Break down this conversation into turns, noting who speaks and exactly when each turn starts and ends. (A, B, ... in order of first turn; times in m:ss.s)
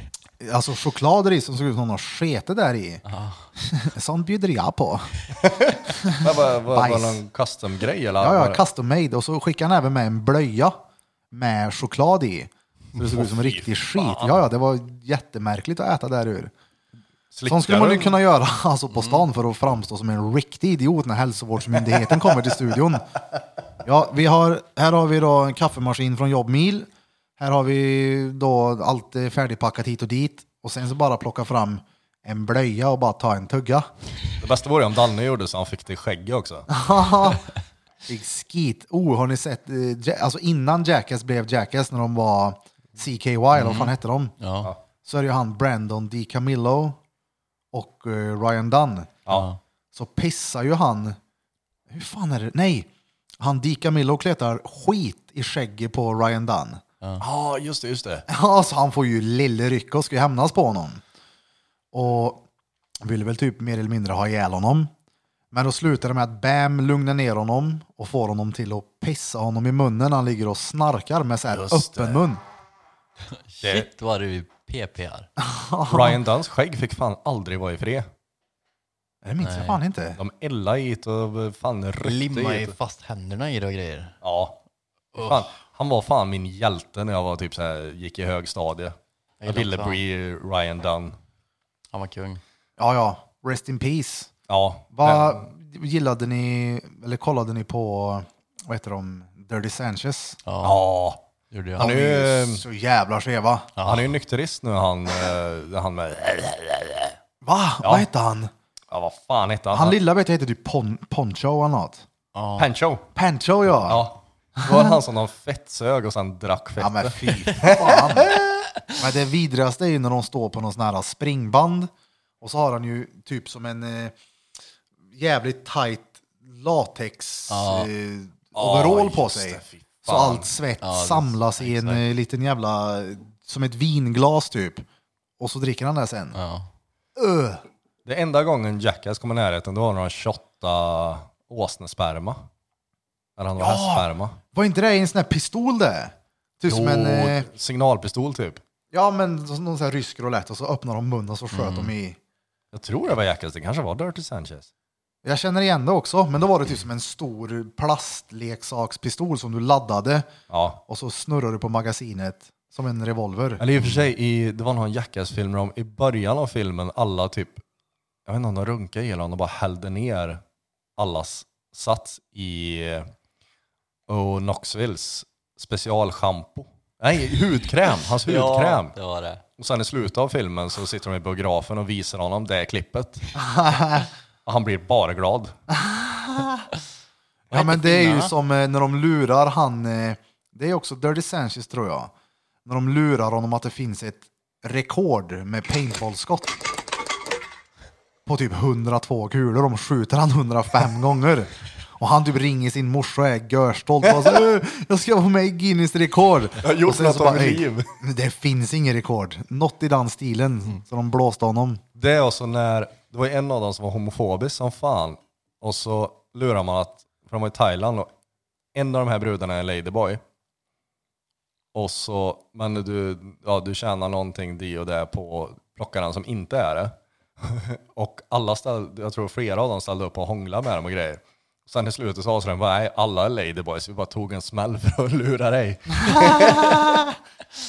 0:00.4-0:03.0 A
0:03.0-0:03.5 B
0:03.6-0:05.1 A
0:05.4-0:08.6 C
0:06.0-0:07.2 A
0:08.2-0:10.8 A
0:11.3-0:16.5 A
0:13.1-0:14.4 C
0:17.3-0:18.2 C
0:17.5-0:23.1 A
0:18.9-0:19.2 B
0:23.8-0:33.9 A
0:34.4-0:36.7 C
0:36.7-0:37.4 A
0:38.1-0:44.3 A
0:43.6-0:44.7 B
0:45.0-0:47.0 A
0:47.7-0:49.1 A
0:49.3-0:49.6 B
0:49.9-0:51.2 A
0:51.9-0:52.9 A
0:53.4-0:56.8 A
0:57.2-0:58.3 C
0:58.3-1:01.0 A
1:01.9-1:02.4 A
1:03.0-1:04.9 A
1:05.5-1:12.4 A
1:11.7-1:12.0 C
1:13.3-1:15.3 B
1:13.6-1:13.9 C
1:15.4-1:16.2 A
1:15.9-1:18.1 C
1:19.2-1:20.2 A
1:19.4-1:19.8 B
1:20.2-1:22.8 C
1:22.0-1:24.2 B
1:24.2-1:24.6 C
1:25.2-1:25.5 B
1:25.2-1:29.0 C
1:29.4-1:30.0 B
1:29.5-1:31.2 C
1:31.9-1:32.4 B
1:32.8-1:34.3 A
1:34.5-1:35.5 C
1:34.9-1:40.4 A
1:40.5-1:40.8 B
1:40.6-1:41.2 C
1:41.5-1:41.9 B
1:41.8-1:42.6 C
1:41.8-1:43.7 A
1:43.8-1:44.1 B
1:43.8-1:47.2 C
1:47.4-1:48.5 A
1:48.9-1:50.0 C
1:49.7-1:52.0 A
1:52.3-1:52.7 B
1:52.6-1:53.1 C
1:53.2-1:54.0 A
1:53.8-1:57.8 C
1:54.6-1:54.9 A
1:56.8-1:58.4 A
1:57.5-1:58.4 B
1:59.0-2:01.9 A
2:02.4-2:04.1 A
2:05.1-2:14.8 A
2:07.5-2:07.9 B
2:08.6-2:10.5 C
2:10.8-2:12.1 B
2:15.4-2:16.4 A
2:16.3-2:16.7 B
2:17.2-2:17.6 A
2:18.0-2:22.4 C
2:23.4-2:24.4 C
2:23.6-2:27.5 A
2:26.7-2:28.6 C
2:28.9-2:32.2 A
2:31.5-2:31.9 B
2:32.7-2:34.7 C
2:35.2-2:40.3 A
2:40.5-2:40.8 C
2:40.9-2:43.6 A
2:43.6-2:47.6 C
2:48.3-2:50.4 C
2:51.0-2:53.1 C
2:54.1-2:59.0 C
2:58.2-2:59.4 B
2:59.6-3:03.3 C
3:03.4-3:04.1 A
3:04.5-3:05.6 C
3:05.7-3:06.7 A
3:07.5-3:08.3 B
3:07.5-3:12.1 A
3:12.6-3:16.6 A
3:18.3-3:31.8 A
3:26.6-3:27.9 C
3:32.0-3:38.1 C
3:38.8-3:40.2 C
3:41.7-3:56.9 C
3:56.1-3:57.1 A